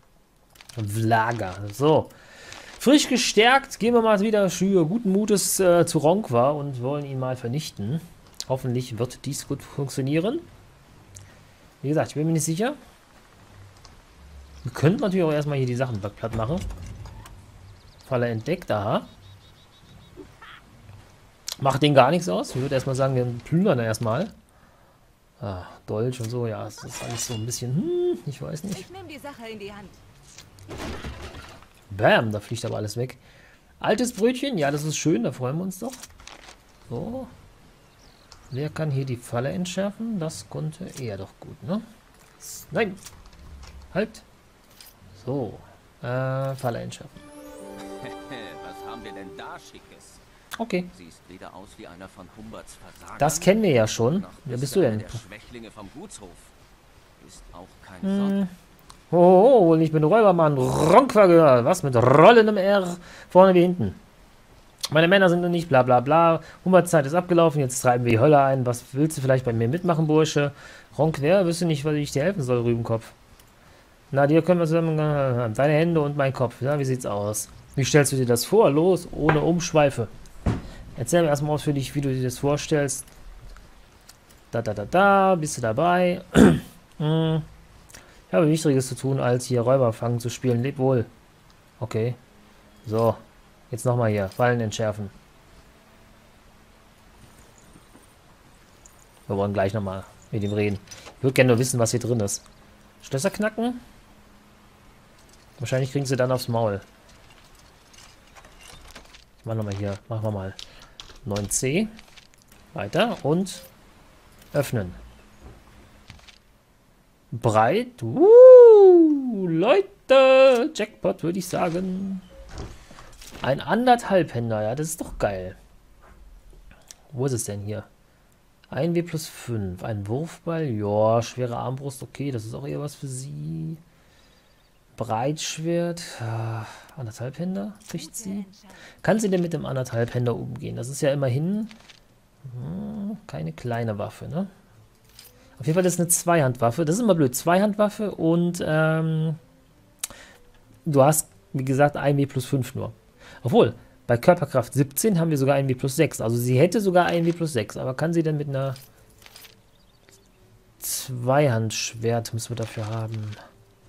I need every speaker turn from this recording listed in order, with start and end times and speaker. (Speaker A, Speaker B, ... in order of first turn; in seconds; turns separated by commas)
Speaker A: 0.7-2.1, Speaker A: 2.8-10.5, Speaker A: 11.8-12.8, Speaker A: 14.6-16.6, Speaker A: 18.1-19.1, Speaker A: 21.6-24.3, Speaker A: 25.4-28.9, Speaker B: 28.7-30.0, Speaker A: 31.9-33.2, Speaker A: 33.8-36.0, Speaker A: 36.9-37.3, Speaker A: 38.5-41.9, Speaker A: 42.4-43.0, Speaker A: 43.9-44.2, Speaker A: 45.1-47.2, Speaker C: 47.8-50.2, Speaker A: 50.6-50.9, Speaker C: 50.9-56.5, Speaker A: 53.2-55.2, Speaker C: 57.2-58.4, Speaker A: 58.0-58.5, Speaker A: 59.1-64.0, Speaker A: 64.9-73.1, Speaker A: 74.1-80.1, Speaker A: 81.0-83.0, Speaker A: 84.5-87.5, Speaker A: 88.3-91.1, Speaker A: 91.8-92.2, Speaker A: 92.8-95.1, Speaker A: 99.3-102.4, Speaker A: 103.0-103.8, Speaker A: 105.6-106.8, Speaker A: 109.4-110.6, Speaker A: 111.2-111.9, Speaker A: 112.7-113.7, Speaker A: 114.5-115.0, Speaker A: 117.3-122.2, Speaker A: 123.4-125.6, Speaker A: 127.1-127.9, Speaker A: 128.7-133.8, Speaker A: 135.0-138.5, Speaker B: 137.9-138.9, Speaker A: 139.0-141.8, Speaker A: 142.4-144.5, Speaker A: 145.6-149.4, Speaker A: 150.8-158.8, Speaker A: 160.8-163.4